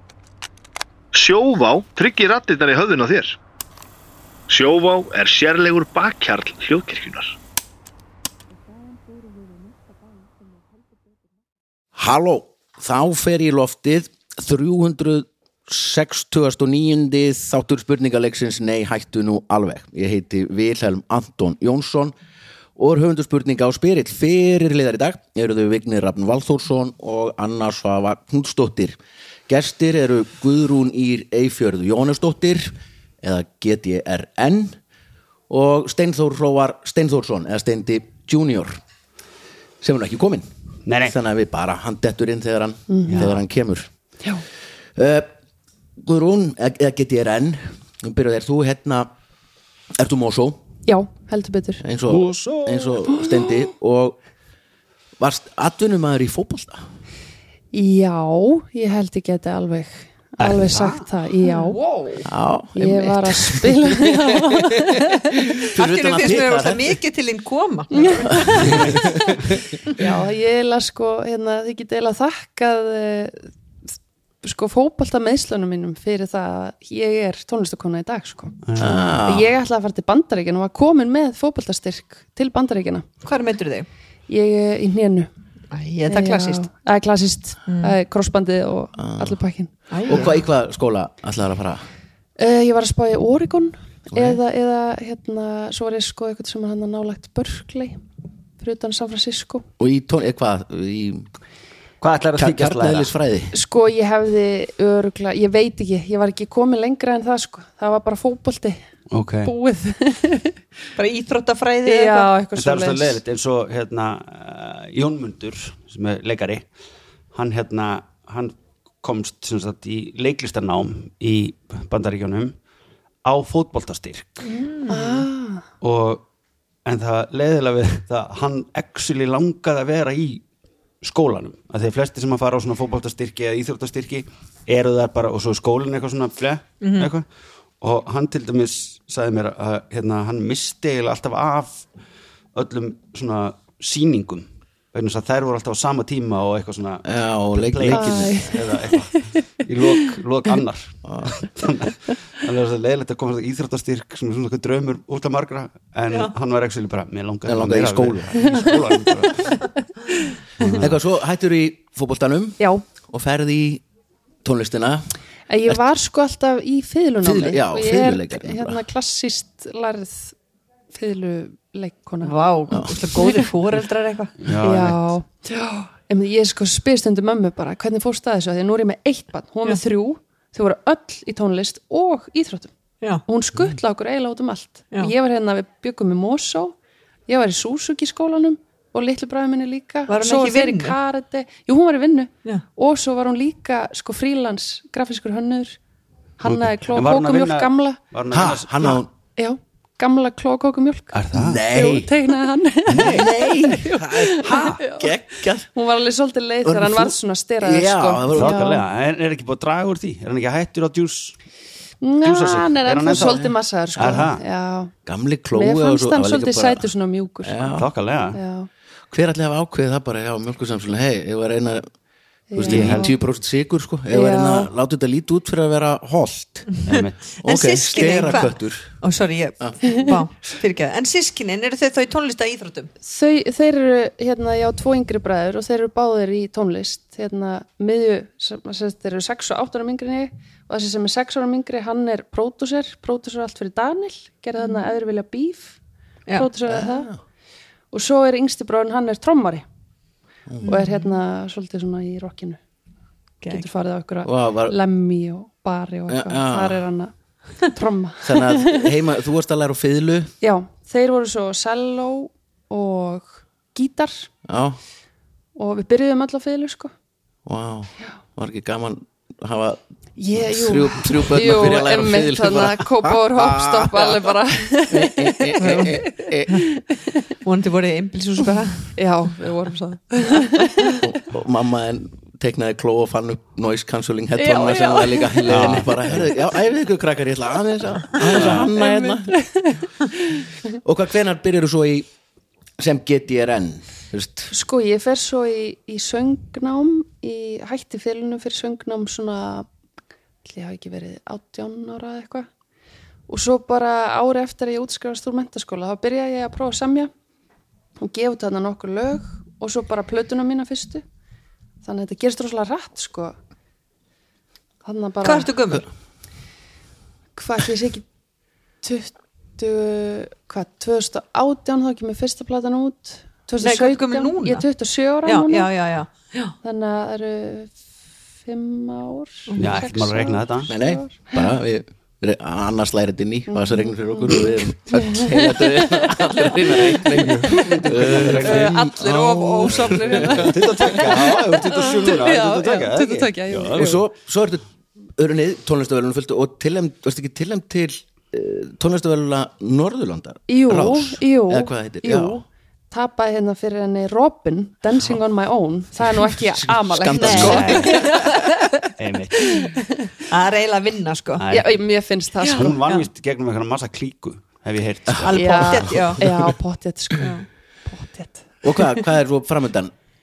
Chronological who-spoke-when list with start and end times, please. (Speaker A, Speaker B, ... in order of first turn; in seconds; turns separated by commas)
Speaker A: 1.1-3.4, Speaker A: 4.5-7.4, Speaker B: 11.9-22.1, Speaker B: 22.8-34.8, Speaker B: 35.5-38.8, Speaker B: 39.8-40.5, Speaker C: 40.9-41.1, Speaker B: 41.0-43.9, Speaker D: 42.9-43.2, Speaker C: 43.1-43.4, Speaker B: 45.0-45.3, Speaker B: 46.0-49.1, Speaker B: 50.0-50.6, Speaker D: 50.9-51.8, Speaker B: 51.8-54.2, Speaker C: 52.1-53.0, Speaker D: 53.1-53.4, Speaker B: 55.2-56.8, Speaker D: 57.7-61.8, Speaker C: 60.4-61.0, Speaker E: 61.5-62.2, Speaker B: 62.2-67.0, Speaker D: 62.7-65.3, Speaker E: 65.8-69.0, Speaker D: 67.9-69.4, Speaker B: 68.3-69.3, Speaker C: 68.6-68.9, Speaker D: 69.9-73.5, Speaker D: 74.4-78.6, Speaker C: 78.6-79.1, Speaker B: 78.8-79.5, Speaker D: 79.2-83.0, Speaker E: 83.2-83.9, Speaker D: 84.3-85.3, Speaker E: 85.7-86.6, Speaker D: 86.1-90.3, Speaker E: 87.7-88.0, Speaker B: 89.0-89.3, Speaker E: 89.9-90.4, Speaker B: 90.0-91.8, Speaker D: 92.4-98.0, Speaker B: 94.1-94.4, Speaker D: 98.6-99.7, Speaker B: 99.8-101.3, Speaker C: 102.0-103.1, Speaker B: 102.3-103.5, Speaker D: 103.5-108.8, Speaker C: 109.1-109.5, Speaker D: 109.4-110.6, Speaker E: 111.0-112.3, Speaker D: 111.8-113.2, Speaker C: 112.5-116.6, Speaker C: 117.3-122.5, Speaker C: 123.2-124.5, Speaker E: 124.5-125.2, Speaker D: 124.9-125.6, Speaker C: 125.8-126.2, Speaker C: 126.8-130.4, Speaker C: 131.0-137.2, Speaker E: 136.8-137.1, Speaker C: 137.8-141.8, Speaker C: 142.5-159.6, Speaker B: 147.0-148.6, Speaker D: 147.9-149.3, Speaker B: 151.0-151.3, Speaker B: 157.4-158.5, Speaker C: 160.6-160.9, Speaker B: 160.6-163.8, Speaker D: 162.6-162.8, Speaker B: 164.4-165.1, Speaker D: 165.5-170.3, Speaker B: 167.2-168.8, Speaker D: 170.9-172.4, Speaker E: 172.2-174.4, Speaker B: 172.7-173.0, Speaker C: 174.4-175.0, Speaker D: 174.6-182.7, Speaker D: 183.2-186.7, Speaker D: 187.3-195.8, Speaker E: 190.1-191.0, Speaker D: 196.4-198.0, Speaker C: 196.4-199.0, Speaker B: 198.3-199.1, Speaker D: 199.4-205.1, Speaker C: 201.1-201.6, Speaker B: 201.3-202.1, Speaker C: 202.9-203.3, Speaker B: 203.0-205.7, Speaker C: 204.4-204.8, Speaker D: 205.7-208.8, Speaker B: 206.6-208.7, Speaker C: 208.3-211.3, Speaker D: 212.0-214.9, Speaker C: 212.2-214.4, Speaker B: 215.1-216.8, Speaker D: 215.5-217.8, Speaker B: 217.4-217.9, Speaker C: 217.8-218.4, Speaker D: 218.3-218.7, Speaker B: 219.1-221.8, Speaker D: 222.5-223.1, Speaker B: 222.5-226.7, Speaker C: 222.7-223.1, Speaker D: 224.1-224.7, Speaker E: 226.7-232.9, Speaker C: 226.8-227.2, Speaker B: 227.4-228.9, Speaker D: 233.0-245.8, Speaker D: 246.3-247.1, Speaker B: 246.7-247.2, Speaker D: 247.9-249.7, Speaker B: 250.5-250.8, Speaker E: 250.6-251.0, Speaker D: 250.7-252.6, Speaker D: 253.5-258.9, Speaker B: 254.2-254.8, Speaker B: 256.1-256.8, Speaker B: 258.2-260.3, Speaker D: 260.4-264.3, Speaker B: 264.4-264.8, Speaker D: 265.6-266.9, Speaker B: 267.4-269.8, Speaker D: 270.2-277.2, Speaker B: 270.3-276.6, Speaker E: 275.6-276.0, Speaker E: 277.4-278.9, Speaker D: 278.9-281.0, Speaker B: 280.9-289.4, Speaker D: 284.4-285.7, Speaker C: 285.4-286.2, Speaker C: 288.2-288.7, Speaker D: 288.4-290.5, Speaker B: 290.8-292.1, Speaker B: 292.8-294.5, Speaker D: 294.5-299.7, Speaker D: 300.4-302.5, Speaker D: 303.3-307.1, Speaker D: 308.0-311.0, Speaker D: 311.8-313.4, Speaker D: 314.8-315.5, Speaker E: 315.2-315.9, Speaker D: 317.3-318.1, Speaker D: 318.8-325.7, Speaker E: 323.6-324.6, Speaker E: 325.2-326.5, Speaker D: 326.6-327.7, Speaker D: 328.4-331.5, Speaker E: 329.5-329.8, Speaker C: 329.6-330.7, Speaker B: 330.7-341.4, Speaker D: 333.5-344.0, Speaker C: 337.1-338.8, Speaker C: 339.6-343.9, Speaker B: 343.7-344.6, Speaker B: 345.1-352.4, Speaker D: 350.5-360.1, Speaker B: 356.1-358.3, Speaker C: 357.2-358.2, Speaker E: 357.2-357.5, Speaker C: 358.9-359.8, Speaker E: 360.3-361.4, Speaker C: 361.4-361.7, Speaker D: 361.5-362.7, Speaker C: 362.4-366.0, Speaker B: 365.1-366.4, Speaker E: 365.3-366.2, Speaker D: 365.4-368.5, Speaker B: 368.6-369.9